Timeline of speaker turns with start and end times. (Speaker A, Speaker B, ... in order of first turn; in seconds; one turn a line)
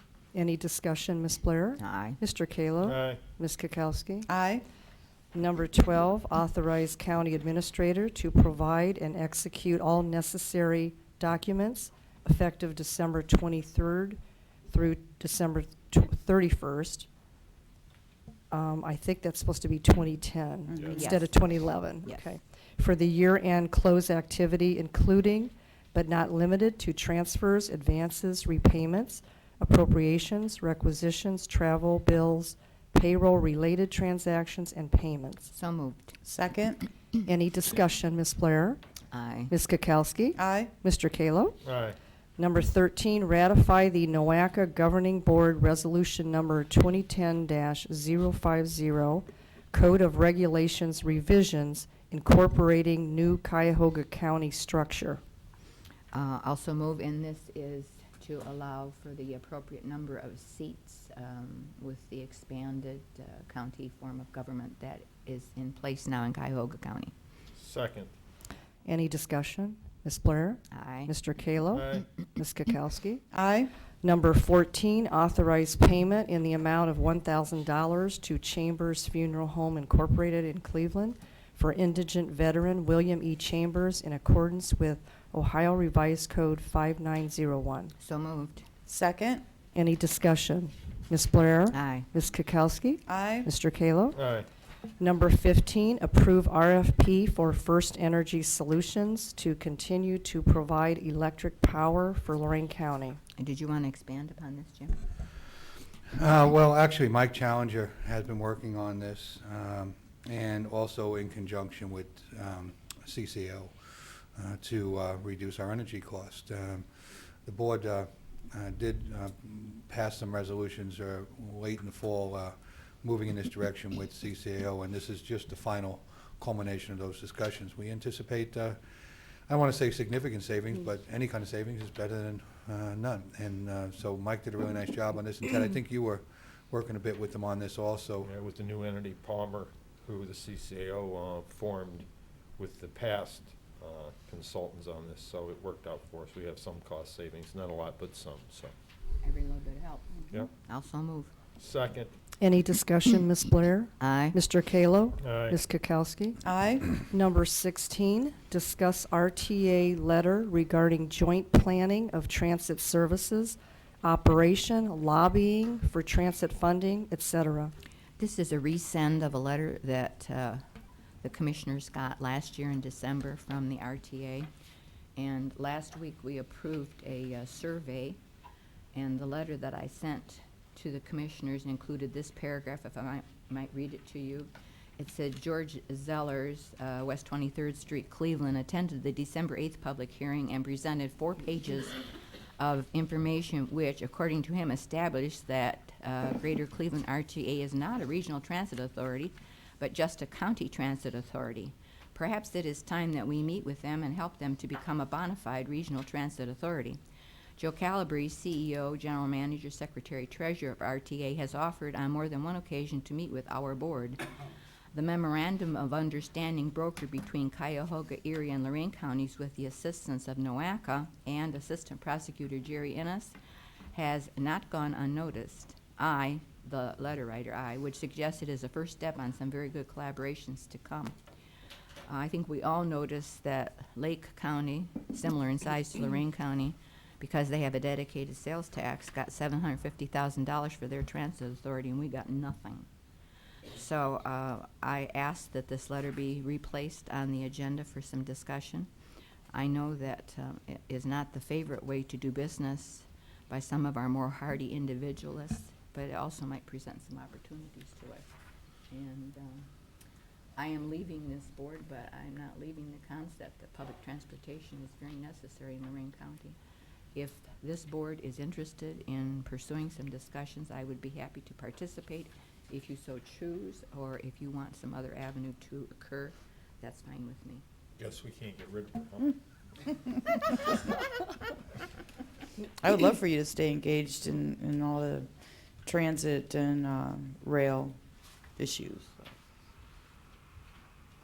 Speaker A: 0.3-4.3
Speaker B: 1.8-2.2
Speaker C: 2.8-3.2
Speaker D: 4.3-4.7
Speaker A: 5.3-17.1
Speaker A: 18.5-35.5
Speaker C: 20.7-21.1
Speaker B: 20.9-21.4
Speaker B: 35.5-36.2
Speaker D: 36.2-36.9
Speaker A: 37.2-38.8
Speaker B: 39.1-39.5
Speaker A: 39.5-41.6
Speaker D: 40.4-40.7
Speaker C: 41.6-42.0
Speaker A: 42.4-55.2
Speaker B: 56.1-67.1
Speaker C: 67.6-68.1
Speaker A: 68.9-73.2
Speaker B: 70.7-71.1
Speaker C: 71.7-72.1
Speaker D: 73.3-73.7
Speaker A: 74.0-87.9
Speaker B: 88.0-88.7
Speaker D: 88.9-89.4
Speaker A: 89.7-94.2
Speaker B: 91.7-92.1
Speaker D: 93.1-93.5
Speaker C: 94.2-94.5
Speaker A: 95.0-103.2
Speaker B: 103.4-105.0
Speaker E: 106.2-116.9
Speaker E: 117.5-128.8
Speaker E: 129.5-138.3
Speaker C: 138.2-142.1
Speaker C: 142.6-148.7
Speaker B: 149.2-151.3
Speaker C: 151.6-152.1
Speaker A: 152.4-156.4
Speaker B: 154.0-154.4
Speaker C: 155.2-155.6
Speaker D: 156.4-156.9
Speaker A: 157.0-167.7
Speaker B: 168.2-170.6
Speaker B: 171.2-174.5
Speaker B: 175.2-178.2
Speaker B: 178.9-192.0
Speaker B: 192.6-207.0
Speaker B: 207.6-214.2
Speaker B: 214.9-223.4
Speaker B: 223.9-231.2
Speaker B: 232.1-242.9
Speaker B: 243.7-248.9
Speaker B: 249.5-258.3
Speaker B: 258.9-259.7
Speaker B: 260.6-266.6
Speaker B: 267.1-277.6
Speaker C: 278.0-279.4
Speaker D: 282.8-285.3
Speaker D: 285.9-288.0
Speaker D: 288.6-289.2